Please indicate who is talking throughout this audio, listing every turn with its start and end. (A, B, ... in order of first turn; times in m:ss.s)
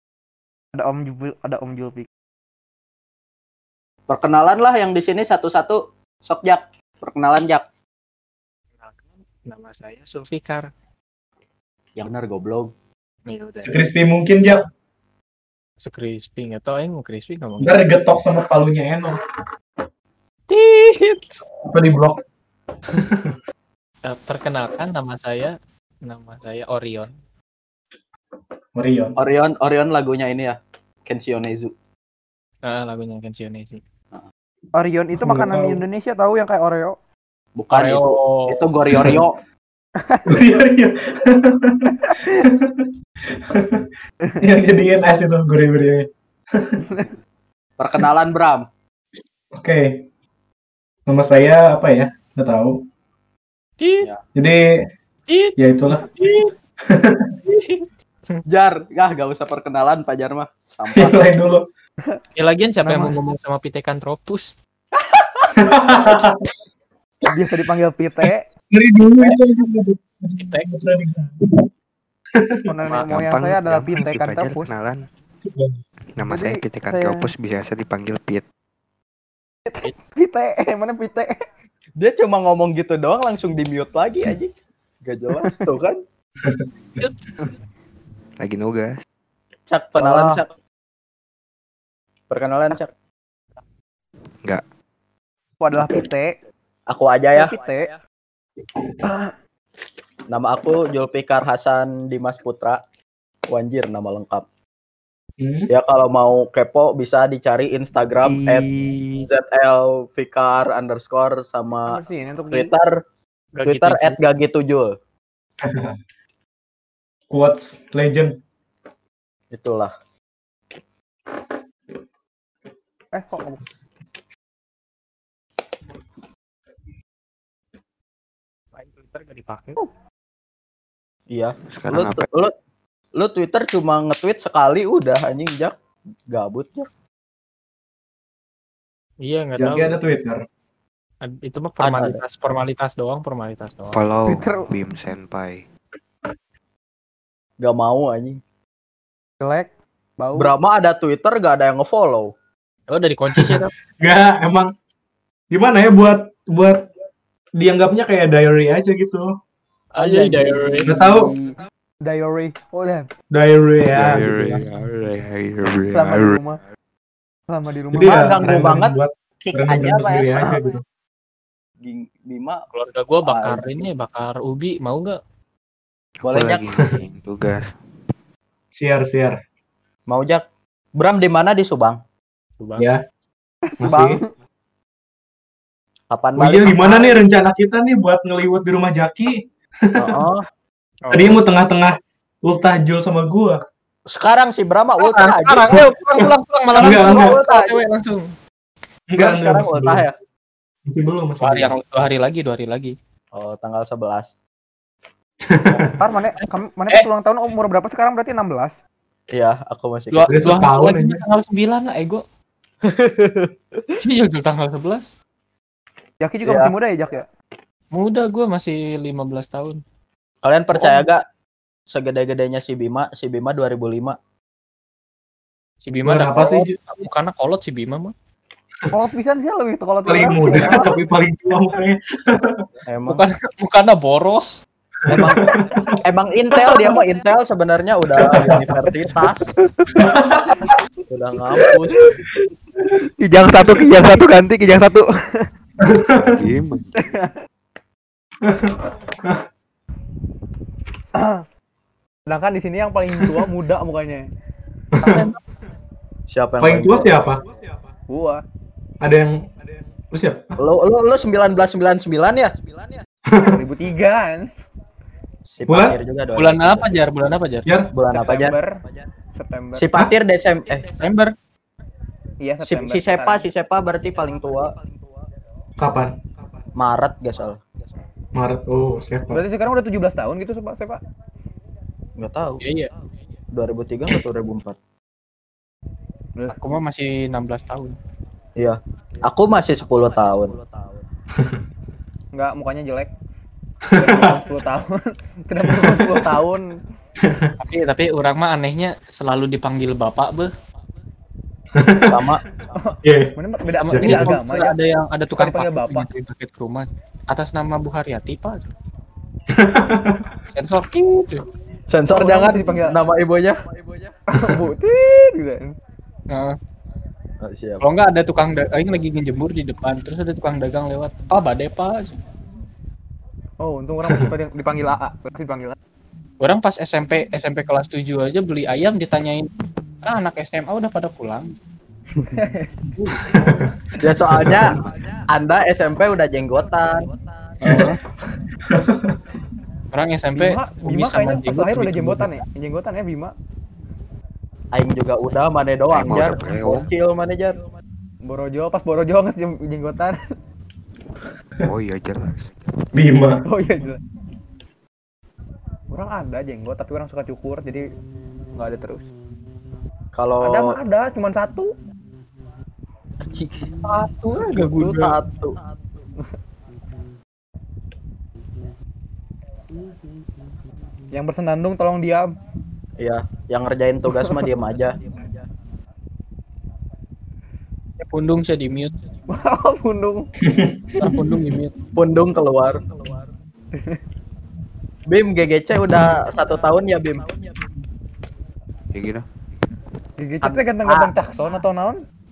0:00.8-0:02.1 A
0:04.1-0:07.6 B
0:08.8-0:10.7 C
0:12.0-0:12.7 B
0:13.3-0:13.8 C
0:13.6-0:14.6 D
0:15.8-0:17.8 C
0:17.6-0:19.2 D
0:20.5-0:21.4 C
0:21.6-0:22.2 D
0:23.0-0:23.4 D
0:24.0-0:27.1 C
0:28.8-0:29.2 D
0:29.2-0:31.7 B
0:32.6-0:33.8 C
0:34.8-0:37.0 A
0:35.2-0:35.8 D
0:37.6-0:39.4 B
0:37.7-0:38.6 C
0:38.9-0:39.2 D
0:40.0-0:40.4 A
0:40.3-0:43.9 D
0:44.4-0:46.8 D
0:47.8-0:48.7 B
0:49.5-0:50.0 D
0:51.1-0:52.8 D
0:53.8-0:54.1 C
0:54.4-0:54.6 D
0:55.3-0:56.5 C
0:55.6-0:56.1 D
0:56.9-0:57.3 D
0:57.5-0:58.4 C
0:58.5-1:01.2 B
1:00.9-1:01.6 D
1:02.4-1:04.5 C
1:02.9-1:03.2 A
1:05.6-1:06.4 D
1:07.3-1:08.5 A
1:08.7-1:11.7 D
1:10.4-1:10.7 C
1:12.3-1:12.7 D
1:12.7-1:14.7 A
1:13.0-1:15.0 E
1:16.2-1:18.4 E
1:16.3-1:17.3 A
1:19.7-1:21.4 A
1:22.0-1:24.5 B
1:25.0-1:26.0 B
1:28.4-1:29.0 E
1:29.7-1:30.5 B
1:30.0-1:30.4 A
1:32.3-1:32.9 B
1:35.6-1:36.4 A
1:36.9-1:37.6 B
1:37.4-1:37.9 A
1:39.0-1:39.3 A
1:40.3-1:42.8 B
1:43.5-1:44.4 B
1:45.4-1:45.7 D
1:45.7-1:48.7 B
1:48.2-1:49.3 E
1:49.3-1:52.0 B
1:51.9-1:52.7 A
1:52.5-1:53.0 B
1:53.6-1:54.2 C
1:53.7-1:55.0 B
1:55.6-1:56.0 D
1:57.3-1:58.4 D
1:59.5-1:59.9 B
2:03.1-2:03.6 A
2:08.8-2:09.8 C
2:11.3-2:12.5 B
2:11.7-2:12.3 E
2:13.2-2:15.7 B
2:16.3-2:16.9 B
2:19.2-2:20.0 C
2:19.6-2:20.4 D
2:21.2-2:24.0 C
2:21.8-2:22.2 B
2:23.9-2:25.6 E
2:24.3-2:24.7 A
2:27.6-2:28.4 B
2:29.4-2:30.5 A
2:30.4-2:32.3 B
2:32.9-2:33.7 C
2:33.3-2:34.7 D
2:35.5-2:36.8 D
2:37.6-2:39.3 D
2:39.9-2:40.9 C
2:40.0-2:43.1 A
2:40.8-2:41.3 D
2:43.3-2:44.6 D
2:43.9-2:46.4 E
2:45.9-2:46.6 A
2:47.5-2:48.3 A
2:47.9-2:50.8 D
2:48.0-2:50.3 B
2:51.8-2:52.6 B
2:52.7-2:55.2 C
2:53.2-2:53.8 B
2:56.2-2:57.7 E
2:56.2-2:56.6 B
2:58.7-2:59.4 D
3:00.1-3:00.4 B
3:01.0-3:02.0 B
3:02.6-3:02.9 C
3:02.8-3:03.0 D
3:03.7-3:04.3 A
3:03.8-3:04.2 D
3:06.1-3:07.2 B
3:06.4-3:10.2 D
3:10.0-3:10.4 B
3:11.0-3:11.4 C
3:11.1-3:13.6 D
3:14.1-3:15.8 B
3:15.0-3:18.3 C
3:16.8-3:17.8 B
3:16.8-3:17.4 D
3:19.1-3:20.0 D
3:19.2-3:20.1 B
3:20.9-3:21.7 D
3:21.4-3:23.0 C
3:23.4-3:24.3 B
3:25.5-3:26.0 D
3:26.0-3:28.8 A
3:29.3-3:30.3 B
3:30.1-3:32.2 C
3:30.3-3:31.2 D
3:32.8-3:33.9 B
3:34.0-3:35.1 C
3:36.2-3:37.3 A
3:36.4-3:36.7 B
3:37.9-3:39.8 C
3:40.4-3:41.2 B
3:41.9-3:44.2 B
3:45.8-3:48.1 C
3:46.0-3:46.7 D
3:48.9-3:51.0 A
3:50.1-3:52.7 D
3:52.9-3:53.2 B
3:53.1-3:54.6 C
3:55.0-3:56.0 D
3:55.1-3:59.5 B
3:58.2-3:58.9 D
4:00.0-4:00.6 D
4:01.1-4:02.0 B
4:03.2-4:05.5 A
4:05.8-4:06.4 D
4:06.2-4:07.0 E
4:07.0-4:07.3 A
4:08.4-4:09.4 D
4:11.1-4:11.4 A
4:12.3-4:14.3 A
4:14.9-4:15.3 D
4:15.0-4:15.3 C
4:16.3-4:17.1 B
4:16.6-4:17.5 D
4:18.1-4:18.4 A
4:19.0-4:19.5 D
4:20.1-4:20.6 D
4:20.6-4:22.6 B
4:23.3-4:23.6 D
4:23.4-4:24.5 A
4:25.5-4:26.9 B
4:25.7-4:26.0 D
4:26.4-4:27.7 C
4:27.7-4:27.9 D
4:27.9-4:28.6 B
4:28.1-4:28.8 A
4:29.4-4:29.9 A
4:29.8-4:30.9 B
4:31.0-4:31.3 C
4:32.4-4:33.4 A
4:32.6-4:34.8 B
4:35.8-4:36.2 D
4:36.8-4:37.6 B
4:38.4-4:39.4 D
4:39.3-4:41.0 A
4:42.2-4:42.6 B
4:42.6-4:42.9 C
4:43.5-4:44.8 B
4:46.5-4:47.9 C
4:48.6-4:50.6 B
4:52.3-4:53.1 A
4:53.9-4:54.4 D
4:54.0-4:56.8 A
4:55.7-4:56.3 D
4:57.2-4:57.5 D
4:57.6-5:00.5 C
5:01.8-5:02.3 D
5:02.1-5:02.4 B
5:02.8-5:04.8 A
5:03.0-5:03.4 D
5:03.8-5:08.7 C
5:03.9-5:04.4 D
5:05.3-5:06.1 A
5:09.5-5:10.3 D
5:10.5-5:11.5 C
5:11.9-5:13.6 B
5:12.1-5:13.0 A
5:14.3-5:15.8 A
5:16.3-5:16.6 C
5:17.4-5:17.8 B
5:17.8-5:22.1 C
5:23.6-5:25.8 A
5:26.4-5:29.5 C
5:30.0-5:31.5 C
5:32.3-5:32.7 A
5:33.0-5:33.5 C
5:33.2-5:33.7 D
5:34.0-5:37.1 B
5:34.3-5:34.8 D
5:37.6-5:38.0 C
5:37.6-5:38.0 D
5:37.6-5:37.9 B
5:38.6-5:39.2 D
5:39.9-5:42.4 C
5:40.4-5:43.4 A
5:44.7-5:47.6 B
5:45.9-5:46.9 E
5:48.3-5:50.2 A
5:51.6-5:52.9 E
5:52.9-5:53.5 D
5:53.4-5:54.0 A
5:55.9-5:57.9 A
5:58.5-5:59.0 A
6:00.2-6:00.8 B
6:00.4-6:01.7 A
6:03.2-6:03.7 B
6:03.8-6:05.2 C
6:04.4-6:05.0 A
6:04.9-6:05.6 B
6:11.1-6:12.3 A
6:13.0-6:15.0 B
6:18.0-6:19.0 C
6:19.3-6:20.3 A
6:20.4-6:21.2 D
6:21.0-6:21.7 C
6:22.0-6:22.9 B
6:25.1-6:27.3 B
6:28.9-6:29.2 E
6:30.2-6:32.0 A
6:30.4-6:31.1 B